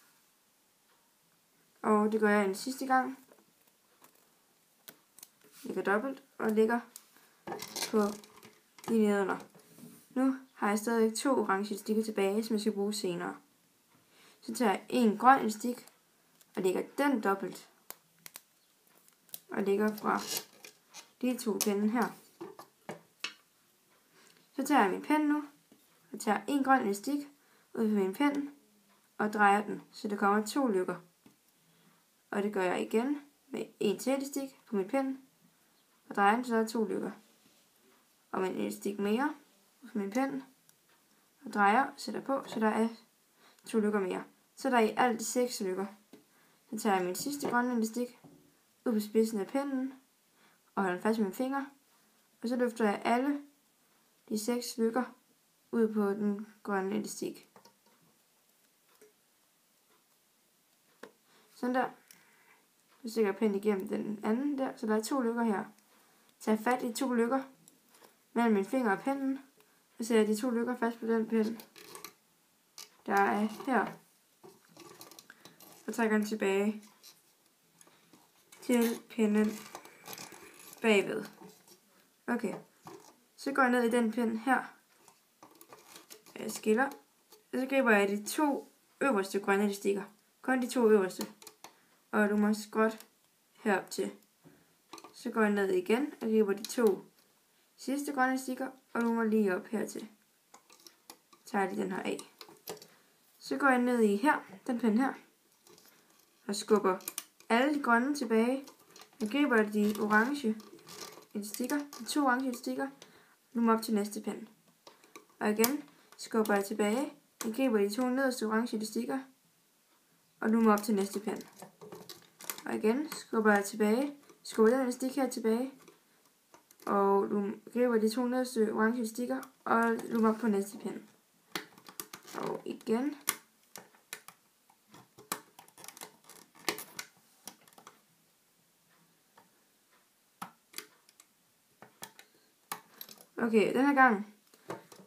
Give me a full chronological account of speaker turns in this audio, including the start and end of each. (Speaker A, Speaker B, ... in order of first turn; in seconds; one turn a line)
Speaker A: 1.8-3.2
Speaker A: 5.6-6.8
Speaker A: 7.8-8.2
Speaker A: 8.8-9.4
Speaker A: 10.1-13.4
Speaker A: 14.4-15.9
Speaker A: 16.5-17.7
Speaker A: 19.5-20.3
Speaker A: 21.2-22.1
Speaker A: 24.5-25.5
Speaker A: 26.1-28.5
Speaker A: 29.2-31.0
Speaker A: 32.3-35.2
Speaker A: 36.1-37.2
Speaker A: 38.3-40.5
Speaker A: 41.4-43.0
Speaker A: 43.6-45.9
Speaker A: 46.7-48.2
Speaker A: 48.8-50.0
Speaker A: 50.7-51.7
Speaker A: 52.4-53.4
Speaker A: 54.3-55.1
Speaker A: 55.7-57.5
Speaker A: 61.5-61.9
Speaker A: 63.0-65.7
Speaker A: 66.4-67.4
Speaker A: 68.3-69.4
Speaker A: 70.0-71.6
Speaker A: 73.0-73.9
Speaker A: 75.8-76.8
Speaker A: 78.6-79.6
Speaker A: 80.8-81.3
Speaker A: 82.3-82.6
Speaker A: 83.3-84.7
Speaker A: 86.3-86.9
Speaker A: 87.5-91.3
Speaker A: 92.1-93.0
Speaker A: 93.6-94.2
Speaker A: 95.1-97.0
Speaker A: 97.8-100.1
Speaker A: 101.4-102.3
Speaker A: 103.4-105.2
Speaker A: 106.5-108.7
Speaker A: 109.2-110.6
Speaker A: 111.3-112.9
Speaker A: 113.5-114.5
Speaker A: 115.4-119.2
Speaker A: 120.4-121.5
Speaker A: 122.6-125.7
Speaker A: 126.8-131.1
Speaker A: 132.3-133.2
Speaker A: 143.4-144.3